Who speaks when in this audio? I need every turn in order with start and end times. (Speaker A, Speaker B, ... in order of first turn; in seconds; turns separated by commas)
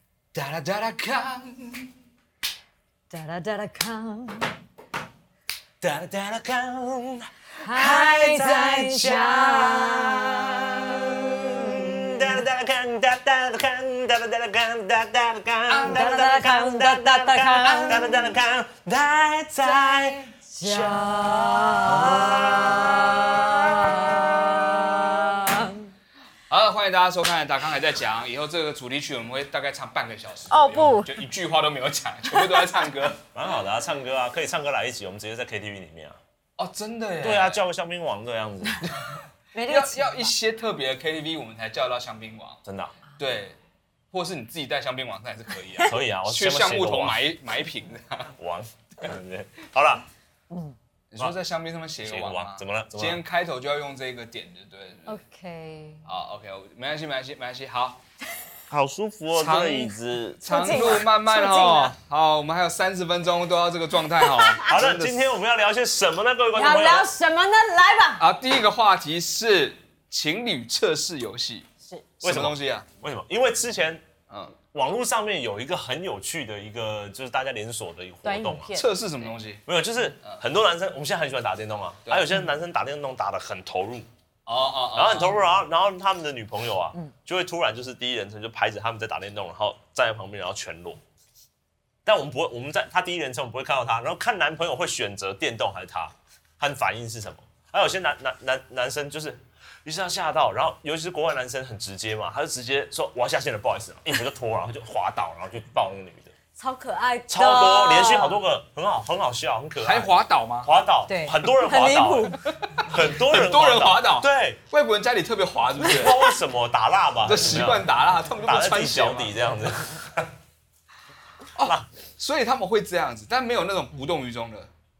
Speaker A: 0.3-1.9, Speaker B: 3.1-4.5, Speaker C: 5.8-25.3, Speaker B: 7.6-12.3, Speaker B: 15.8-18.2, Speaker B: 19.7-25.9, Speaker A: 26.5-33.2, Speaker B: 30.5-31.2, Speaker C: 33.3-36.2, Speaker A: 36.6-37.6, Speaker C: 37.2-38.9, Speaker B: 39.5-40.3, Speaker A: 39.7-42.6, Speaker C: 42.6-43.0, Speaker A: 43.2-43.5, Speaker A: 44.1-48.3, Speaker C: 45.8-47.2, Speaker C: 48.4-50.1, Speaker B: 50.5-50.8, Speaker A: 51.1-55.1, Speaker C: 52.0-53.2, Speaker B: 55.1-56.1, Speaker A: 56.0-58.0, Speaker C: 58.7-61.0, Speaker A: 59.3-65.1, Speaker B: 60.5-61.9, Speaker B: 64.2-64.6, Speaker C: 64.6-67.1, Speaker B: 66.5-68.2, Speaker A: 68.2-71.7, Speaker A: 72.2-72.9, Speaker C: 72.2-74.0, Speaker A: 74.3-74.5, Speaker C: 74.7-78.7, Speaker B: 78.2-79.0, Speaker A: 78.7-79.6, Speaker C: 79.7-84.1, Speaker A: 84.5-85.3, Speaker C: 84.9-91.0, Speaker C: 92.0-106.3, Speaker B: 106.6-108.4, Speaker C: 107.3-110.1, Speaker A: 109.8-110.7, Speaker C: 110.6-112.3, Speaker B: 111.1-112.4, Speaker A: 112.5-116.2, Speaker C: 112.8-114.6, Speaker C: 115.9-117.9, Speaker B: 115.9-116.3, Speaker A: 117.2-119.3, Speaker C: 118.4-120.3, Speaker A: 121.5-124.7, Speaker C: 121.6-121.8